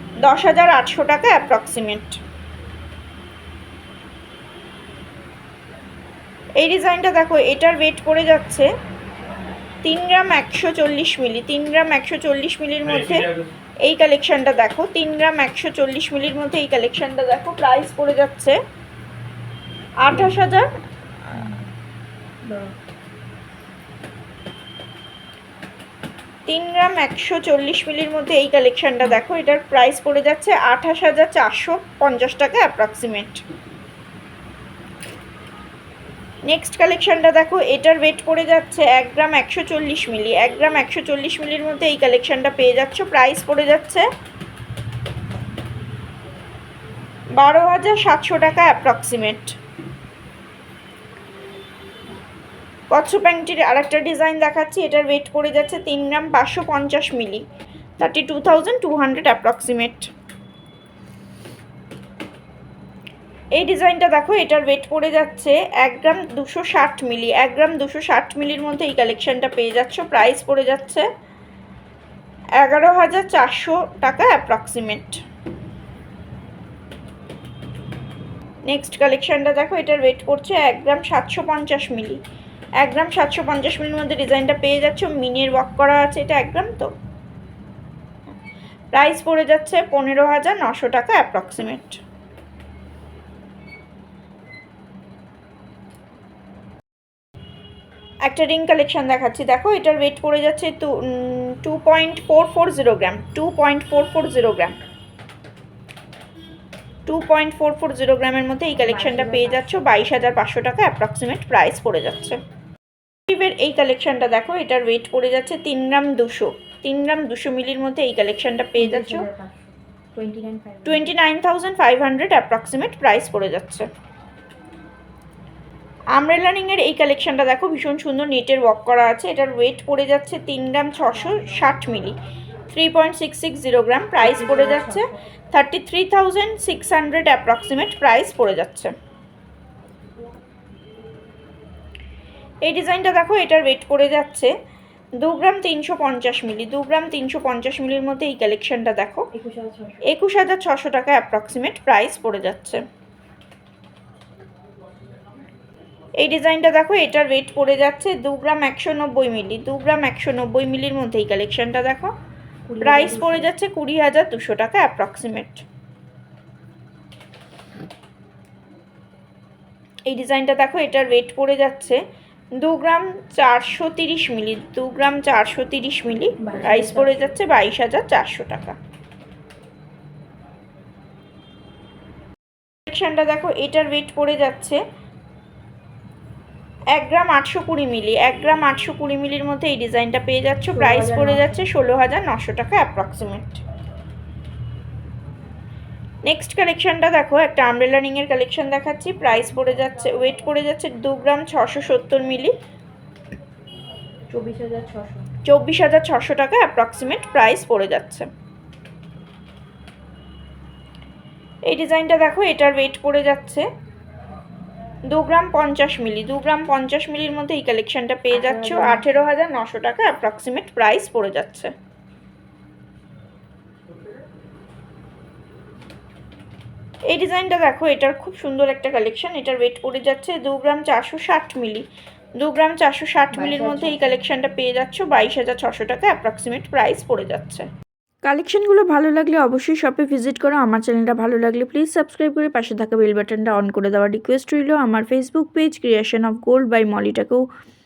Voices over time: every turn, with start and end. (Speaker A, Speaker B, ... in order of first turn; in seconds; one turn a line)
Speaker A: 0.2-2.2
Speaker A: 6.6-8.7
Speaker A: 9.8-18.6
Speaker A: 20.0-20.7
Speaker B: 21.3-21.7
Speaker B: 22.4-22.7
Speaker A: 26.5-33.4
Speaker A: 36.5-44.0
Speaker A: 47.4-49.5
Speaker A: 52.9-57.4
Speaker A: 58.0-60.1
Speaker A: 63.5-71.1
Speaker A: 72.6-75.2
Speaker A: 78.7-82.2
Speaker A: 82.8-86.9
Speaker A: 88.9-92.0
Speaker A: 98.2-104.7
Speaker A: 107.0-112.4
Speaker B: 108.8-109.8
Speaker A: 113.3-119.3
Speaker B: 118.7-121.1
Speaker A: 120.8-123.9
Speaker A: 126.1-132.2
Speaker A: 132.7-138.9
Speaker B: 134.2-135.2
Speaker A: 142.6-144.5
Speaker A: 145.2-149.3
Speaker B: 149.3-150.0
Speaker A: 150.0-152.8
Speaker A: 156.2-162.1
Speaker B: 162.7-163.5
Speaker A: 162.8-165.6
Speaker A: 170.1-172.0
Speaker A: 172.6-178.8
Speaker B: 176.4-177.3
Speaker A: 182.9-184.8
Speaker A: 186.9-193.6
Speaker B: 190.7-191.6
Speaker A: 196.2-202.5
Speaker B: 204.3-205.3
Speaker A: 205.4-208.3
Speaker A: 211.7-213.7
Speaker A: 215.1-221.7
Speaker B: 218.3-219.1
Speaker A: 227.1-231.8
Speaker A: 232.4-237.7
Speaker B: 233.3-234.2
Speaker A: 238.2-247.4